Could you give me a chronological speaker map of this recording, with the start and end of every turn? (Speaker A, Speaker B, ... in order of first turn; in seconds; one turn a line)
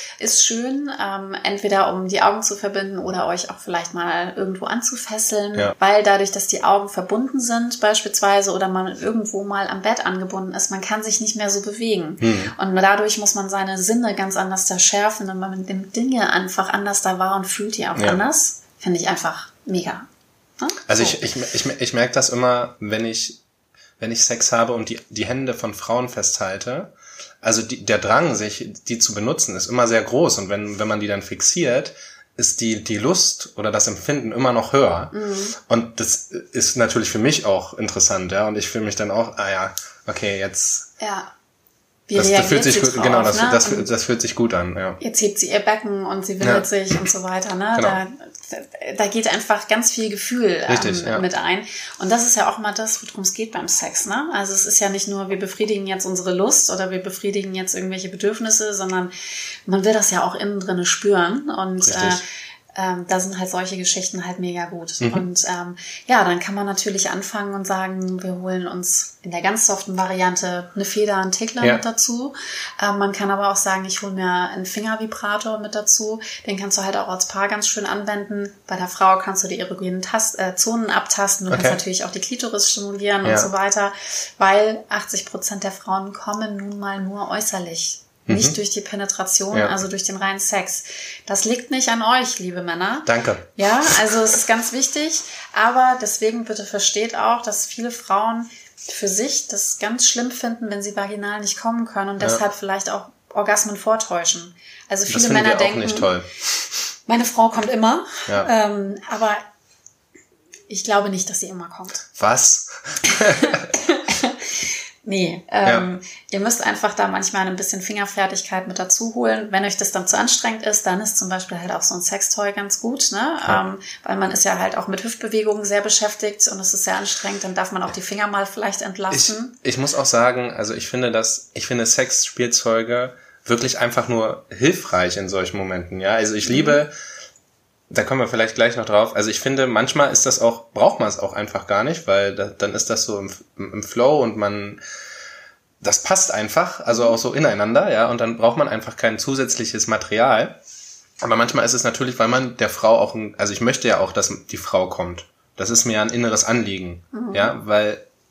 Speaker A: 0.2-20.1
Speaker B: 12.2-12.5
Speaker B: 17.9-18.2
Speaker A: 20.6-21.2
Speaker B: 20.9-23.4
Speaker B: 24.0-40.9
Speaker A: 35.1-35.6
Speaker A: 41.0-41.3
Speaker A: 42.1-43.9
Speaker B: 42.1-45.0
Speaker A: 45.0-59.1
Speaker B: 46.4-46.6
Speaker B: 50.7-51.2
Speaker A: 59.7-62.2
Speaker B: 61.8-62.2
Speaker A: 62.7-106.1
Speaker B: 81.5-81.8
Speaker B: 83.2-83.5
Speaker B: 88.3-88.6
Speaker B: 93.0-94.0
Speaker B: 105.1-106.3
Speaker A: 107.1-109.4
Speaker A: 110.7-112.1
Speaker B: 112.2-113.7
Speaker A: 113.1-129.5
Speaker B: 129.1-136.9
Speaker A: 136.4-136.8
Speaker B: 137.9-144.8
Speaker B: 145.8-150.6
Speaker B: 151.2-158.0
Speaker A: 157.1-157.5